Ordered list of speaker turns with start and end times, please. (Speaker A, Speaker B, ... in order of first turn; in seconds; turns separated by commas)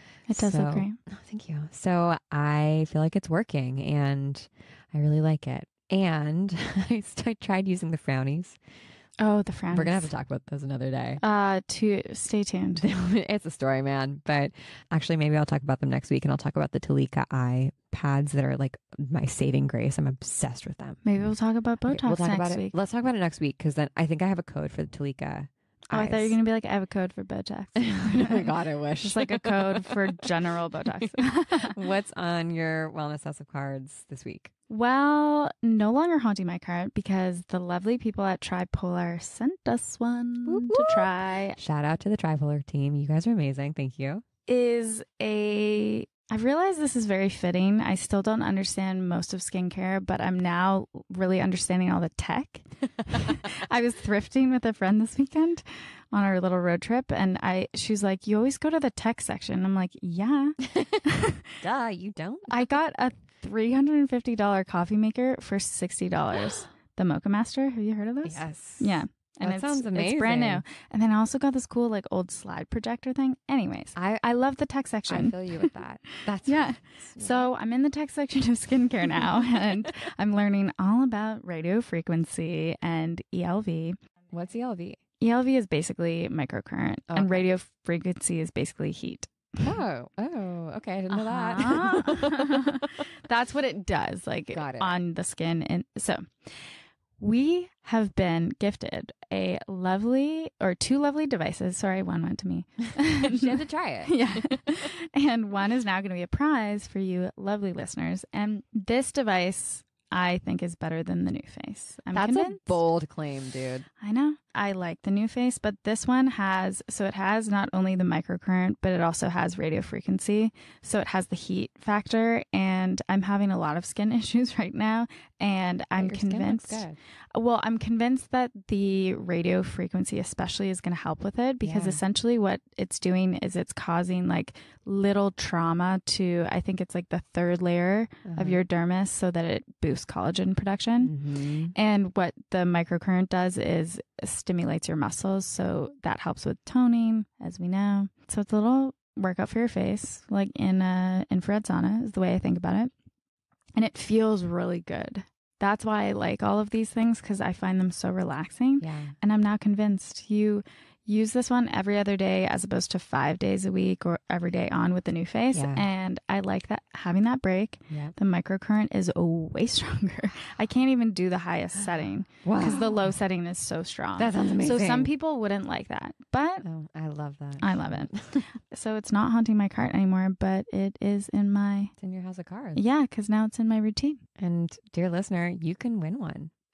Speaker A: 0.3-0.9, Speaker B: 0.3-8.6, Speaker A: 9.2-10.1, Speaker B: 9.7-11.2, Speaker A: 11.2-12.8, Speaker B: 12.8-21.0, Speaker A: 21.0-22.7, Speaker B: 21.9-26.3, Speaker A: 25.9-31.7, Speaker B: 27.8-30.2, Speaker B: 31.7-34.5, Speaker A: 34.7-41.6, Speaker B: 40.5-44.2, Speaker A: 44.5-61.4, Speaker B: 53.1-53.4, Speaker B: 61.6-62.6, Speaker A: 62.5-75.7, Speaker B: 68.2-70.6, Speaker B: 75.1-77.4, Speaker A: 76.4-84.0, Speaker B: 84.3-85.0, Speaker A: 85.2-89.7, Speaker B: 87.1-87.5, Speaker B: 89.6-92.8, Speaker A: 91.1-103.5, Speaker B: 94.5-95.0, Speaker B: 103.2-104.2, Speaker A: 104.0-112.8, Speaker B: 112.1-113.8, Speaker A: 114.0-141.1, Speaker B: 126.0-127.0, Speaker B: 131.6-132.0, Speaker B: 138.2-138.6, Speaker B: 141.0-141.7, Speaker A: 141.7-152.9, Speaker A: 153.8-176.6, Speaker B: 158.8-159.1, Speaker B: 165.5-165.8, Speaker B: 167.9-168.1, Speaker B: 171.8-173.1, Speaker B: 174.2-175.1, Speaker B: 176.6-178.5, Speaker A: 177.6-181.9, Speaker B: 182.0-182.8, Speaker A: 182.7-184.2, Speaker B: 184.4-186.5